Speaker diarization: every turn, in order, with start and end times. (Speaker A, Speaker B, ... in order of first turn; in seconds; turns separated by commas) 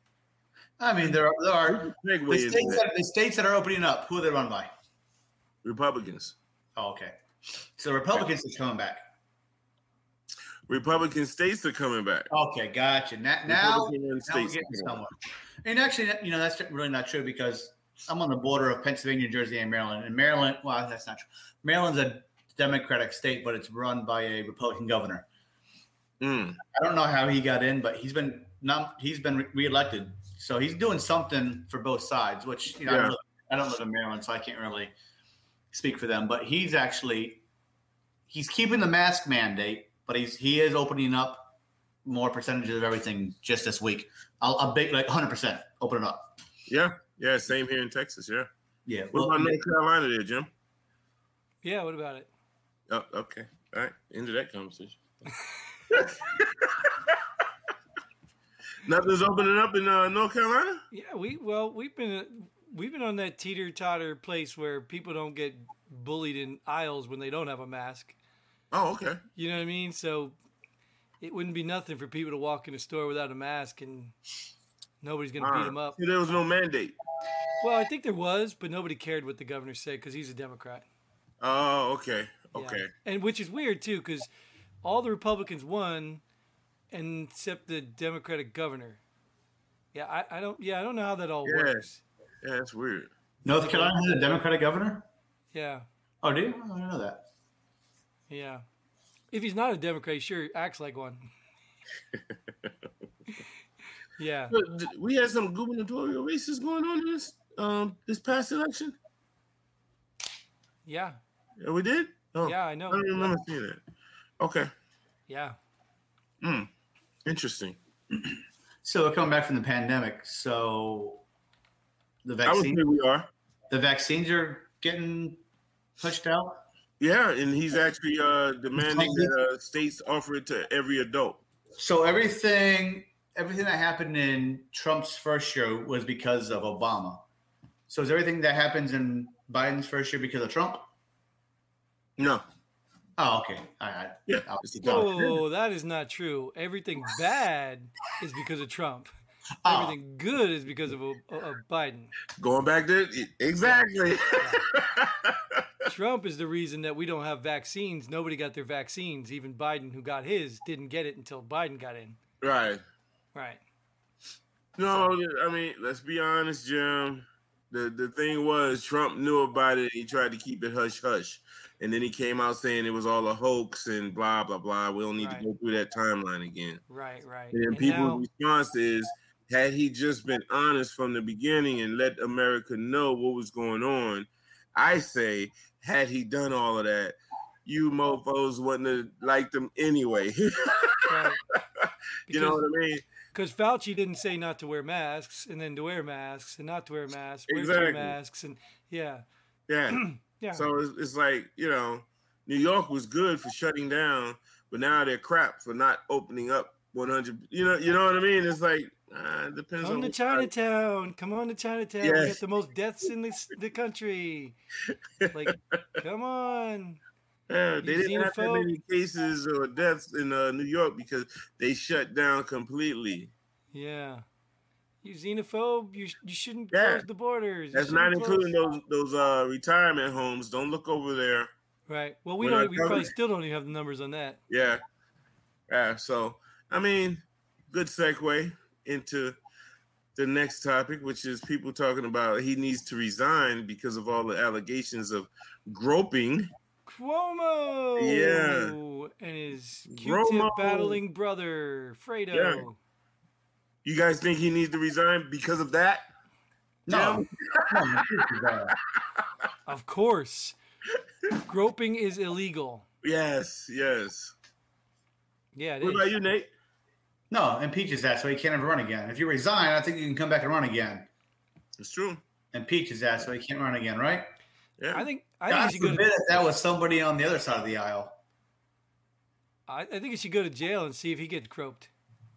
Speaker A: 0.8-4.7, Speaker B: 1.7-2.8, Speaker B: 5.6-6.3, Speaker A: 6.8-7.1, Speaker A: 7.8-9.0, Speaker B: 10.7-12.3, Speaker A: 12.3-25.2, Speaker B: 13.5-15.0, Speaker B: 26.2-26.6, Speaker A: 26.7-34.9, Speaker B: 32.9-33.1, Speaker A: 35.7-37.4, Speaker A: 38.3-41.5, Speaker A: 42.0-46.3, Speaker B: 46.7-48.5, Speaker A: 48.9-49.6, Speaker B: 49.1-50.5, Speaker C: 51.6-52.3, Speaker B: 52.9-55.0, Speaker B: 55.9-57.1, Speaker B: 58.8-60.8, Speaker C: 60.9-68.2, Speaker B: 68.7-69.2, Speaker C: 69.3-70.3, Speaker C: 71.2-74.1, Speaker C: 75.0-76.0, Speaker B: 75.4-77.0, Speaker C: 77.6-80.8, Speaker B: 81.4-82.9, Speaker C: 82.5-84.3, Speaker C: 84.8-86.2, Speaker C: 86.9-89.0, Speaker C: 89.9-92.0, Speaker B: 91.5-91.9, Speaker B: 92.4-93.1, Speaker A: 93.4-95.1, Speaker C: 93.5-94.0, Speaker C: 95.5-95.8, Speaker A: 96.2-97.2, Speaker C: 98.3-98.6, Speaker C: 99.3-101.3, Speaker C: 104.2-104.5, Speaker B: 104.5-109.0, Speaker C: 110.8-111.2, Speaker B: 111.6-113.8, Speaker C: 112.4-113.3, Speaker B: 114.4-114.7, Speaker C: 115.3-115.5, Speaker B: 116.4-116.7, Speaker B: 117.2-117.8, Speaker A: 118.8-121.2, Speaker A: 122.2-122.8, Speaker B: 122.4-123.3, Speaker A: 123.7-125.4, Speaker A: 126.0-126.6, Speaker B: 127.0-131.4, Speaker A: 128.8-129.3, Speaker A: 131.8-137.2, Speaker A: 137.9-140.8, Speaker B: 142.2-142.4, Speaker A: 143.2-145.2, Speaker B: 144.3-145.4, Speaker C: 144.8-149.1, Speaker A: 149.6-149.9, Speaker C: 149.6-152.1, Speaker B: 152.4-155.6, Speaker C: 153.6-154.6, Speaker C: 155.8-162.2, Speaker B: 162.4-162.8, Speaker C: 163.3-163.6, Speaker B: 164.8-176.8, Speaker C: 164.9-165.1, Speaker C: 175.2-175.5, Speaker C: 176.9-178.2, Speaker B: 177.5-193.1, Speaker C: 191.1-191.4, Speaker C: 192.3-192.6, Speaker C: 193.3-199.2, Speaker B: 197.5-198.1, Speaker B: 199.7-210.5, Speaker C: 199.9-200.6, Speaker C: 209.8-214.6, Speaker B: 212.0-212.4, Speaker B: 215.2-215.8, Speaker C: 215.3-217.0, Speaker B: 217.5-223.3, Speaker C: 217.8-218.7, Speaker C: 223.7-224.2, Speaker C: 225.0-228.5, Speaker B: 226.7-227.1, Speaker B: 227.7-231.5, Speaker C: 231.9-234.4, Speaker B: 232.4-233.1, Speaker B: 234.5-234.8, Speaker B: 235.7-239.4, Speaker B: 240.2-246.5, Speaker C: 246.9-252.8, Speaker B: 248.0-248.8, Speaker B: 249.9-251.0, Speaker B: 252.3-252.6, Speaker B: 253.8-256.1, Speaker A: 256.9-258.7, Speaker B: 256.9-258.3, Speaker B: 259.0-259.2, Speaker C: 259.6-260.6, Speaker C: 261.4-262.8, Speaker B: 263.0-264.3, Speaker C: 265.5-266.1, Speaker B: 265.8-266.5, Speaker A: 267.3-271.1, Speaker B: 271.8-272.2, Speaker A: 272.5-274.3, Speaker B: 274.8-275.1, Speaker C: 274.9-276.1, Speaker A: 275.5-278.2, Speaker C: 279.7-281.9